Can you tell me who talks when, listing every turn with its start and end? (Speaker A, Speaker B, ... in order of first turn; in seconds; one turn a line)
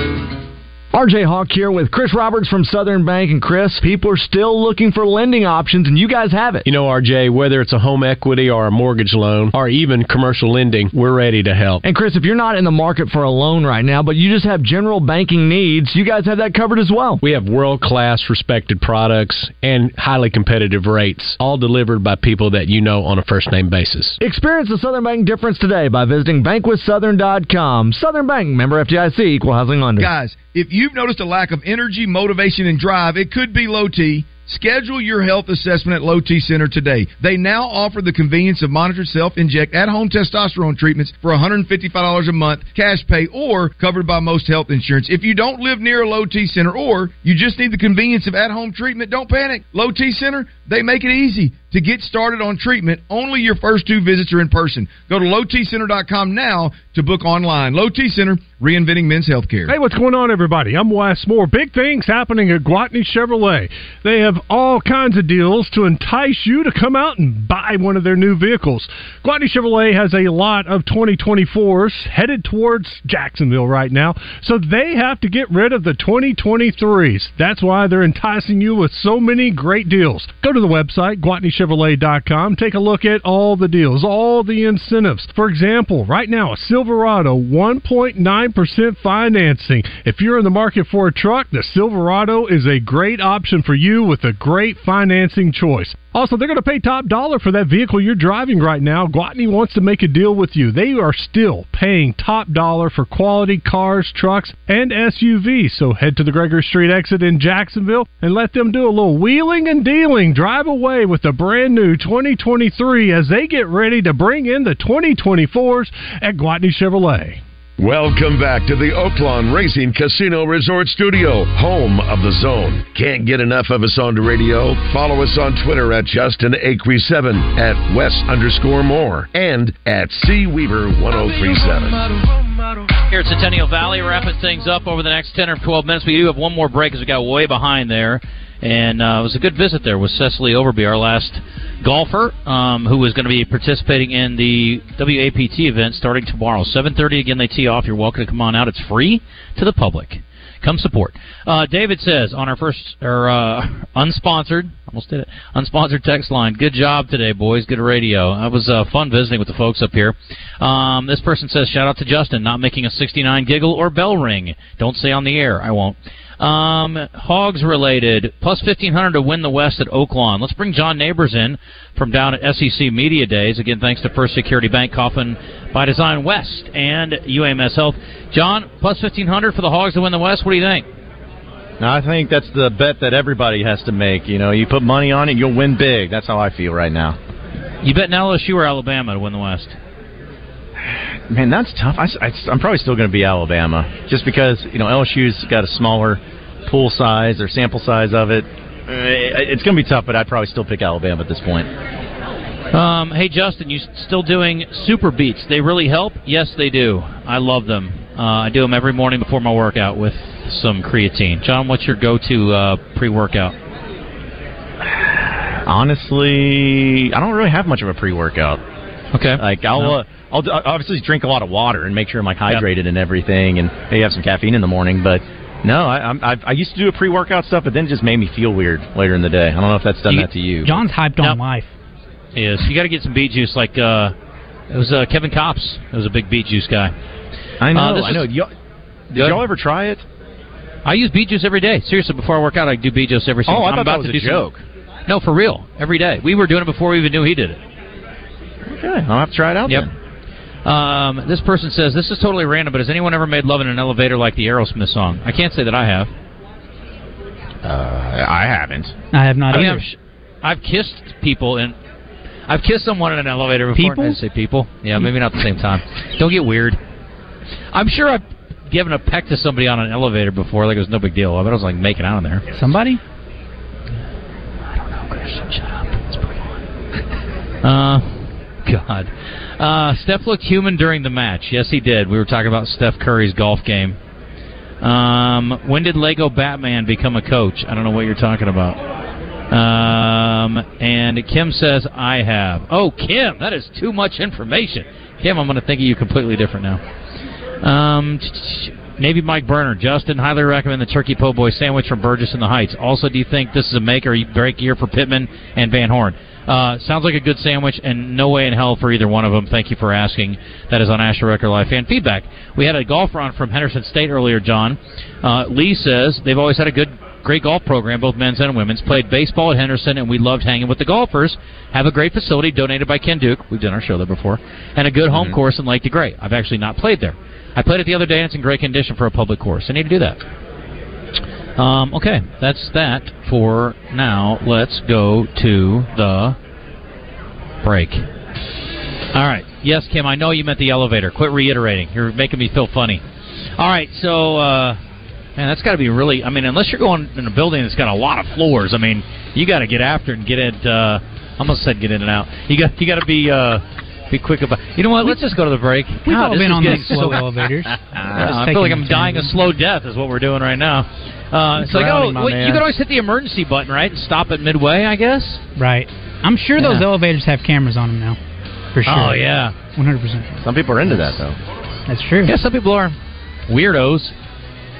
Speaker A: 0.9-6.6
Speaker B: 6.6-11.8
Speaker A: 11.8-17.2
Speaker B: 17.2-24.2
Speaker A: 24.2-30.1
Speaker C: 30.0-59.7
Speaker D: 59.7-117.4
Speaker E: 117.8-132.0
Speaker F: 133.1-180.8
Speaker G: 181.8-187.2
Speaker F: 187.8-189.8
Speaker G: 191.3-201.7
Speaker F: 202.7-213.5
Speaker G: 215.7-218.6
Speaker F: 219.1-220.0
Speaker G: 219.4-230.8
Speaker H: 230.6-231.7
Speaker F: 232.3-234.1
Speaker F: 234.7-236.9
Speaker G: 237.6-238.5
Speaker F: 237.7-238.3
Speaker G: 239.1-240.0
Speaker F: 239.2-239.4
Speaker F: 240.8-244.5
Speaker G: 243.5-244.6
Speaker F: 245.1-247.6
Speaker G: 248.7-249.9
Speaker F: 250.6-256.1
Speaker G: 257.6-258.9
Speaker H: 259.1-259.8
Speaker F: 259.5-261.8
Speaker F: 262.5-266.8
Speaker H: 263.8-264.2
Speaker F: 267.7-272.5
Speaker H: 272.5-273.0
Speaker F: 274.7-276.5
Speaker F: 277.6-284.0
Speaker F: 284.8-288.8
Speaker F: 289.5-296.8
Speaker F: 297.6-330.2
Speaker G: 325.1-325.4
Speaker F: 331.6-336.4
Speaker F: 337.6-338.1
Speaker F: 339.1-343.0
Speaker F: 343.6-344.8
Speaker F: 345.4-357.2
Speaker H: 356.1-359.3
Speaker F: 358.1-365.4
Speaker G: 361.6-362.6
Speaker H: 365.6-368.2
Speaker F: 366.6-366.9
Speaker H: 368.7-370.3
Speaker F: 368.9-369.6
Speaker G: 370.4-371.4
Speaker H: 371.9-372.3
Speaker F: 372.2-372.9
Speaker F: 373.5-374.1